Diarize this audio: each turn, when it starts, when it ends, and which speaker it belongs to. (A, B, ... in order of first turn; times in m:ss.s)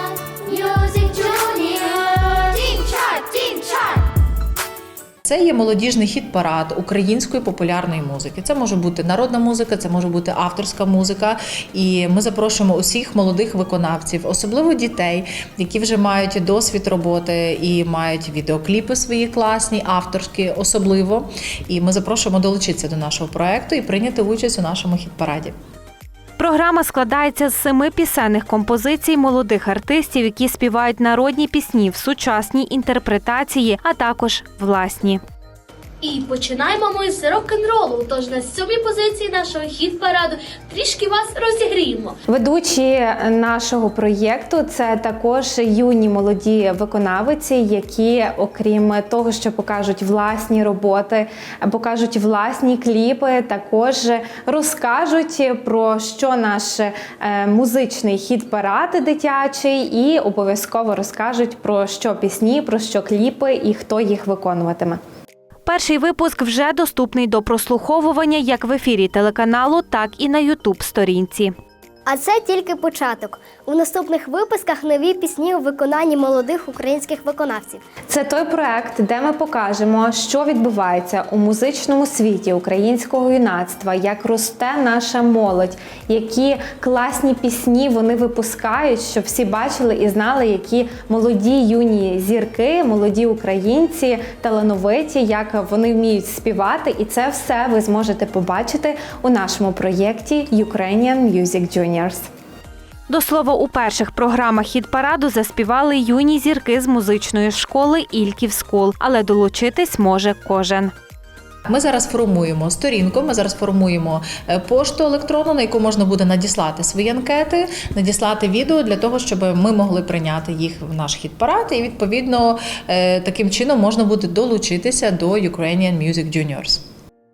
0:05.2-0:25.5 A
0:26.4-0:35.2 B
0:36.0-0:42.1 C
0:42.3-1:05.0 D
1:05.6-1:11.5 B
1:12.0-1:17.8 E
1:18.1-1:42.2 D
1:43.1-1:50.9 B
1:51.6-2:06.8 A